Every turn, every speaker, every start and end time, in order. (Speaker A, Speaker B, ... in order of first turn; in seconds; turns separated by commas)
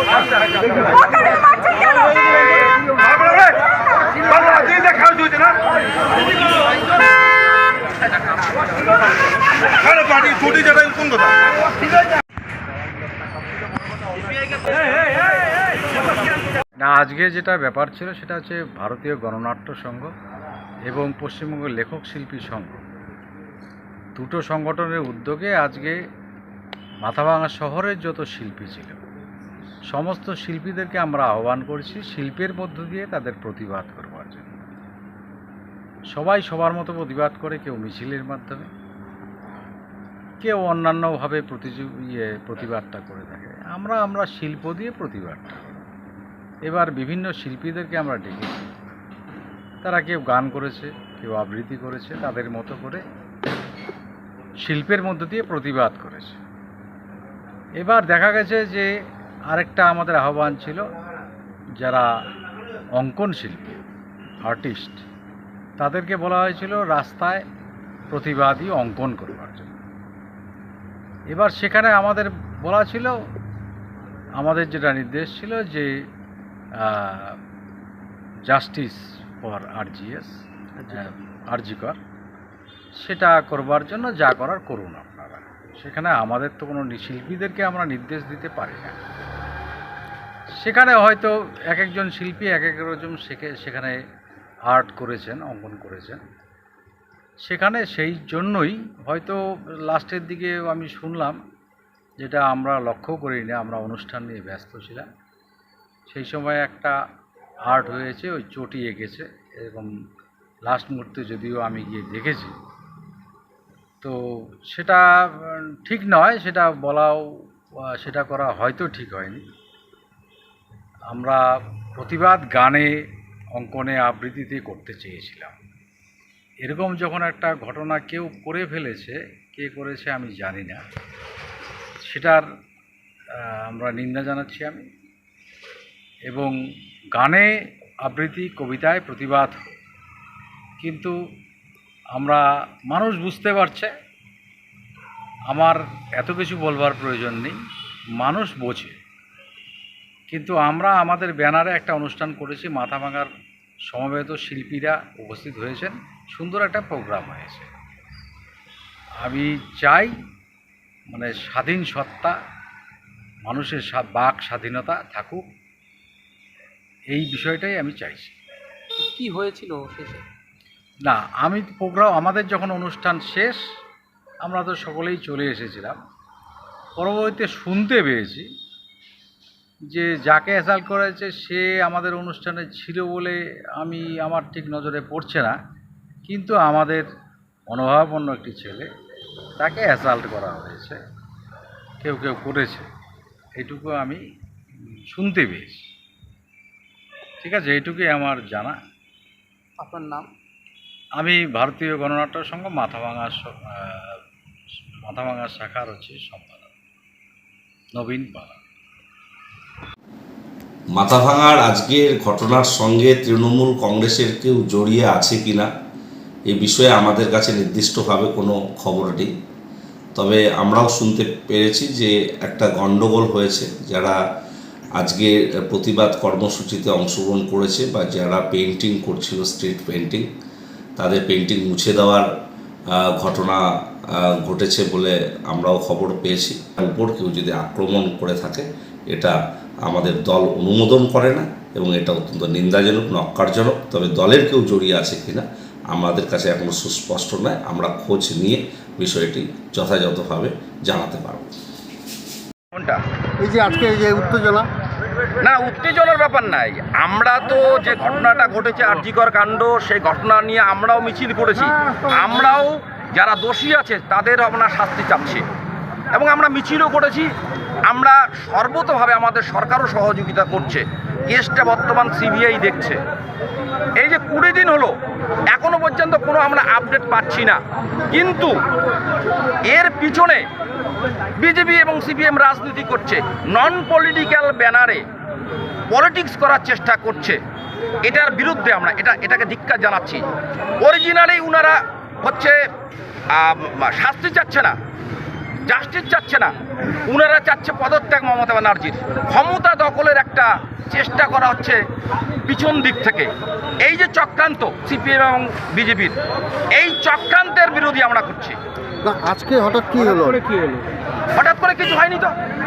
Speaker A: 4.6-5.3, Speaker A: 10.0-11.2, Speaker B: 16.8-20.1, Speaker B: 20.9-22.9, Speaker B: 24.2-26.0, Speaker B: 27.0-29.0, Speaker B: 29.9-34.6, Speaker B: 36.1-38.7, Speaker B: 40.4-45.8, Speaker B: 46.7-48.6, Speaker B: 49.8-53.0, Speaker B: 54.6-56.4, Speaker B: 57.8-58.9, Speaker B: 59.5-60.9, Speaker B: 61.8-62.1, Speaker B: 63.0-63.8, Speaker B: 64.5-65.0, Speaker B: 65.8-67.5, Speaker B: 68.1-69.7, Speaker B: 71.3-73.2, Speaker B: 74.4-75.9, Speaker B: 76.8-77.4, Speaker B: 78.5-80.4, Speaker C: 80.8-81.1, Speaker B: 80.9-82.0, Speaker B: 83.0-89.0, Speaker B: 90.6-94.0, Speaker B: 94.7-96.2, Speaker B: 97.5-101.4, Speaker B: 102.2-105.1, Speaker B: 106.1-106.9, Speaker B: 107.7-109.9, Speaker B: 110.7-112.5, Speaker B: 114.7-117.2, Speaker B: 117.9-119.4, Speaker B: 121.1-121.4, Speaker B: 122.0-123.0, Speaker B: 123.6-125.5, Speaker B: 126.7-130.8, Speaker B: 132.0-132.4, Speaker B: 133.4-134.8, Speaker B: 136.3-136.6, Speaker B: 137.2-137.5, Speaker B: 138.1-139.7, Speaker B: 140.8-141.1, Speaker B: 142.2-143.9, Speaker B: 145.5-147.6, Speaker B: 148.2-149.0, Speaker B: 150.3-153.3, Speaker B: 153.9-157.7, Speaker B: 159.2-160.2, Speaker B: 161.1-162.3, Speaker B: 163.5-165.4, Speaker B: 167.1-168.3, Speaker C: 169.0-170.2, Speaker B: 171.1-173.6, Speaker B: 174.4-176.0, Speaker B: 177.0-178.5, Speaker B: 179.9-185.6, Speaker B: 186.3-187.1, Speaker B: 187.7-188.9, Speaker B: 189.6-191.0, Speaker B: 192.0-192.9, Speaker B: 193.6-194.2, Speaker B: 195.1-195.8, Speaker B: 197.4-198.8, Speaker C: 199.8-200.3, Speaker B: 201.2-204.2, Speaker B: 205.1-206.7, Speaker B: 207.9-208.6, Speaker D: 210.9-215.7, Speaker D: 216.5-219.3, Speaker D: 220.2-224.2, Speaker D: 225.0-230.3, Speaker D: 231.0-232.3, Speaker D: 232.9-251.5, Speaker A: 252.7-253.0, Speaker E: 253.4-254.7, Speaker A: 255.4-265.4, Speaker A: 266.1-267.3, Speaker A: 267.9-273.0, Speaker A: 274.0-274.9, Speaker A: 275.5-277.6, Speaker A: 278.1-278.5, Speaker A: 279.7-280.5, Speaker A: 281.4-285.0, Speaker A: 285.9-287.4, Speaker A: 288.0-290.3, Speaker A: 290.8-292.6, Speaker A: 293.3-294.7, Speaker A: 295.7-296.5, Speaker A: 297.1-301.8, Speaker A: 302.5-306.2, Speaker A: 306.7-308.6, Speaker E: 309.0-310.4, Speaker A: 311.4-312.3